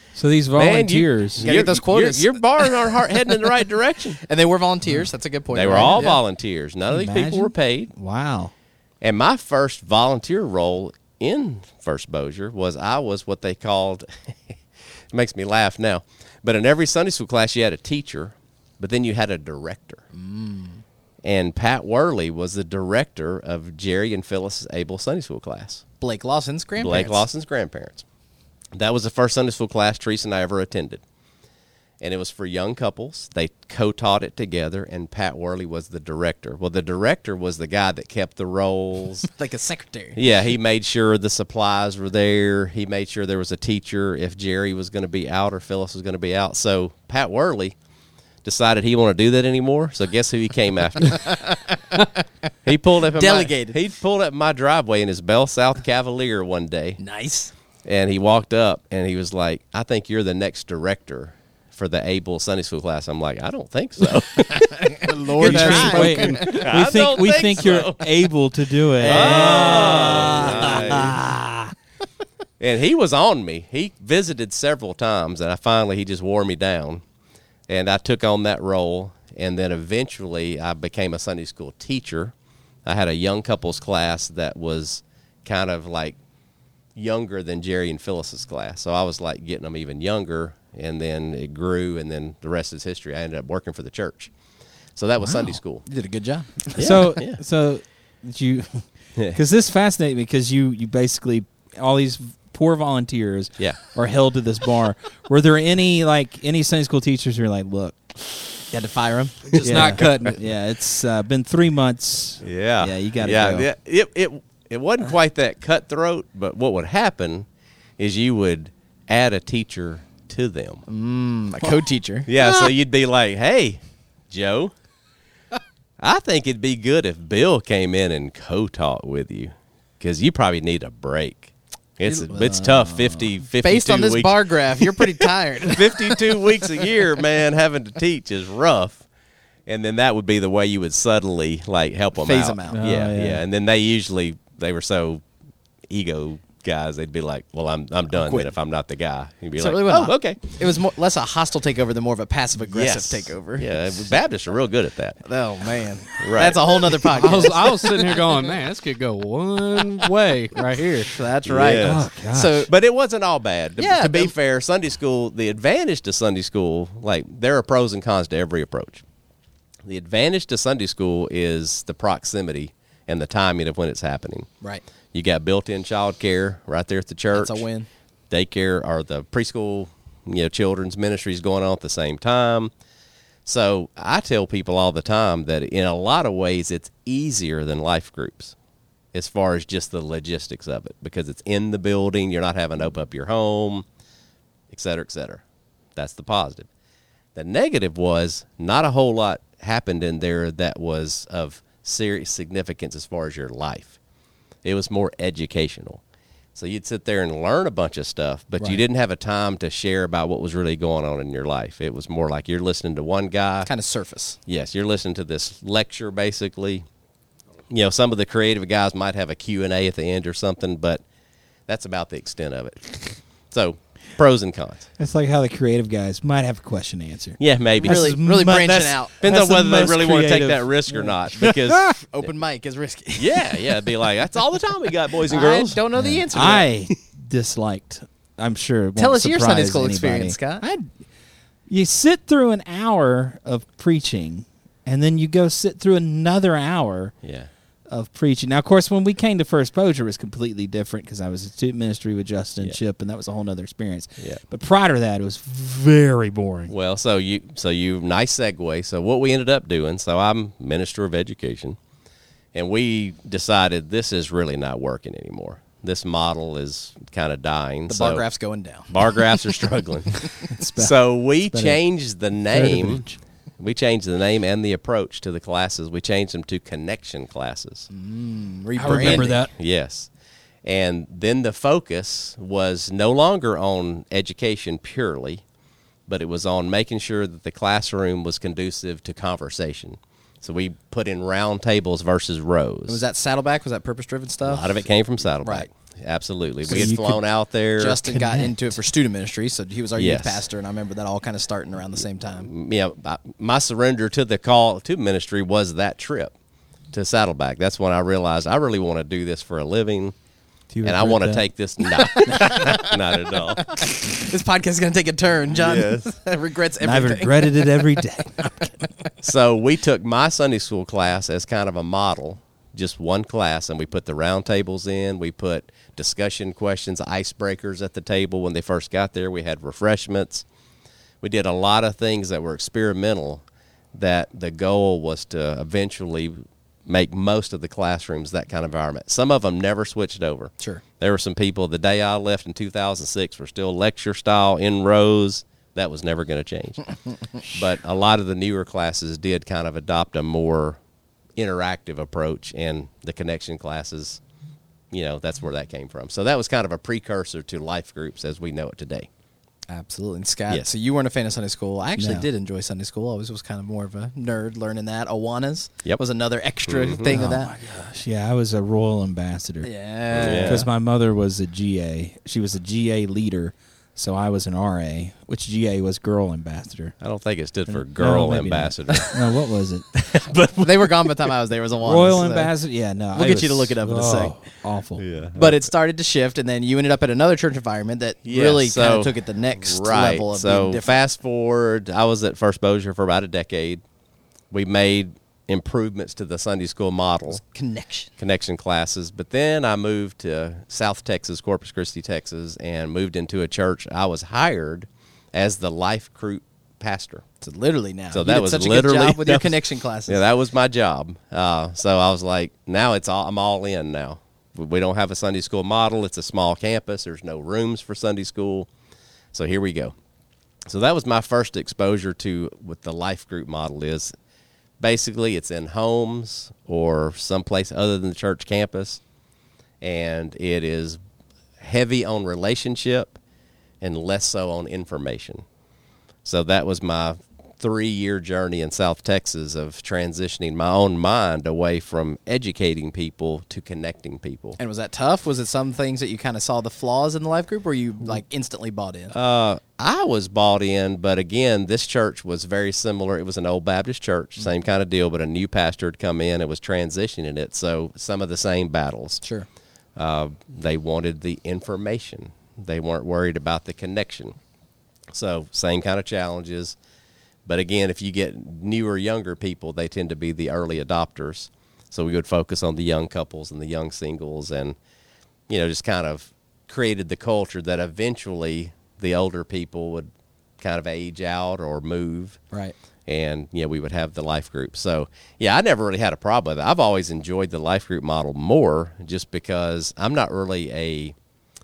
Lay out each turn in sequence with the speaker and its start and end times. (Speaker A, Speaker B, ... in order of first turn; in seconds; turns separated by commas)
Speaker A: 0.1-1.4, Speaker B: 0.6-4.2, Speaker C: 1.4-2.6, Speaker C: 4.2-6.2, Speaker B: 5.5-7.9, Speaker A: 6.9-8.5, Speaker B: 9.0-14.6, Speaker B: 15.1-20.0, Speaker C: 20.1-20.8, Speaker B: 21.2-25.8, Speaker C: 26.0-27.2, Speaker B: 26.8-28.0, Speaker B: 28.7-31.0, Speaker B: 32.0-39.3, Speaker C: 39.3-40.2, Speaker B: 40.1-47.8, Speaker B: 48.4-51.4, Speaker C: 51.1-52.2, Speaker B: 52.6-57.0, Speaker C: 53.1-53.8, Speaker C: 57.0-57.5, Speaker B: 57.8-68.1, Speaker C: 64.5-66.7, Speaker A: 65.4-71.7, Speaker C: 69.0-71.1, Speaker B: 69.0-71.2, Speaker B: 72.6-77.0, Speaker B: 77.7-82.3, Speaker B: 82.8-86.2, Speaker B: 86.9-94.3, Speaker B: 95.0-95.8, Speaker A: 95.2-95.6, Speaker C: 95.8-97.1, Speaker B: 96.8-97.4, Speaker A: 96.8-108.5, Speaker C: 108.7-110.3, Speaker A: 109.6-113.7, Speaker D: 109.8-110.0, Speaker B: 112.4-117.5, Speaker B: 118.0-120.8, Speaker C: 120.9-122.3, Speaker B: 122.3-124.7, Speaker B: 126.0-139.0, Speaker C: 132.0-136.2, Speaker B: 139.7-145.2, Speaker C: 142.2-142.8, Speaker A: 142.7-143.4, Speaker B: 145.9-150.4, Speaker C: 148.1-148.5, Speaker C: 149.6-153.9, Speaker B: 152.7-155.2, Speaker C: 155.2-157.8, Speaker B: 156.1-157.0, Speaker D: 157.1-161.1, Speaker C: 161.0-162.7, Speaker B: 161.4-162.1, Speaker A: 161.6-162.7, Speaker B: 162.7-169.0, Speaker C: 163.8-164.3, Speaker B: 169.8-174.5, Speaker B: 175.1-177.6, Speaker C: 177.3-177.9, Speaker B: 178.3-182.7, Speaker B: 183.4-188.5, Speaker B: 189.1-193.8, Speaker B: 194.7-195.4, Speaker B: 195.9-196.7, Speaker B: 197.3-204.0, Speaker B: 204.6-206.0, Speaker B: 206.5-213.7, Speaker C: 213.6-214.4, Speaker B: 214.4-216.8, Speaker B: 217.7-221.0, Speaker B: 221.7-224.9, Speaker A: 225.0-231.9, Speaker B: 227.4-228.2, Speaker C: 227.8-229.2, Speaker B: 229.2-232.0, Speaker C: 231.9-233.6, Speaker B: 233.2-235.8, Speaker C: 235.3-236.7, Speaker A: 235.9-240.9, Speaker C: 238.9-240.6, Speaker A: 241.7-247.1, Speaker B: 247.2-247.5, Speaker A: 247.9-256.7, Speaker B: 256.7-261.8, Speaker B: 262.5-268.2, Speaker C: 267.9-269.4, Speaker B: 268.9-273.0, Speaker A: 270.6-270.9, Speaker A: 271.5-271.8, Speaker A: 272.5-273.1, Speaker B: 273.6-277.9, Speaker C: 277.9-279.4, Speaker A: 278.8-279.5, Speaker B: 278.8-280.1, Speaker B: 280.6-285.4, Speaker B: 286.1-293.0, Speaker C: 292.9-294.6, Speaker B: 294.4-298.0, Speaker C: 295.4-295.7, Speaker A: 296.7-297.2, Speaker C: 297.8-302.5, Speaker A: 298.0-298.6, Speaker B: 299.9-300.4, Speaker B: 302.4-306.3, Speaker B: 306.9-310.1, Speaker A: 310.7-311.4, Speaker B: 310.8-313.6, Speaker C: 312.1-312.9, Speaker C: 313.6-317.8, Speaker B: 315.5-316.1, Speaker A: 316.8-318.7, Speaker B: 319.2-330.4, Speaker B: 331.2-333.4, Speaker B: 333.9-350.8, Speaker B: 351.4-354.2, Speaker B: 354.9-359.1, Speaker C: 359.7-367.5, Speaker A: 362.0-362.3, Speaker B: 366.6-367.1, Speaker A: 367.1-369.7, Speaker C: 369.6-370.7, Speaker B: 370.1-370.6, Speaker A: 370.2-376.9, Speaker B: 377.0-379.1, Speaker A: 377.7-379.9, Speaker B: 379.9-381.1, Speaker C: 380.6-382.5, Speaker A: 381.8-385.0, Speaker C: 383.1-384.3, Speaker B: 385.0-385.7, Speaker C: 385.4-390.9, Speaker B: 388.2-393.8, Speaker B: 394.5-397.4, Speaker C: 397.3-398.1, Speaker B: 398.2-407.2, Speaker C: 407.4-410.2, Speaker B: 408.1-418.7, Speaker B: 419.3-419.9, Speaker B: 420.6-424.1, Speaker B: 424.8-429.0, Speaker B: 429.8-431.0, Speaker B: 431.6-433.2, Speaker B: 433.8-435.4, Speaker B: 436.2-444.6, Speaker C: 444.6-449.1, Speaker B: 449.1-459.2, Speaker C: 459.2-459.5, Speaker B: 459.9-464.3, Speaker B: 465.1-466.8, Speaker B: 467.4-474.8, Speaker B: 475.5-482.4, Speaker B: 483.1-491.1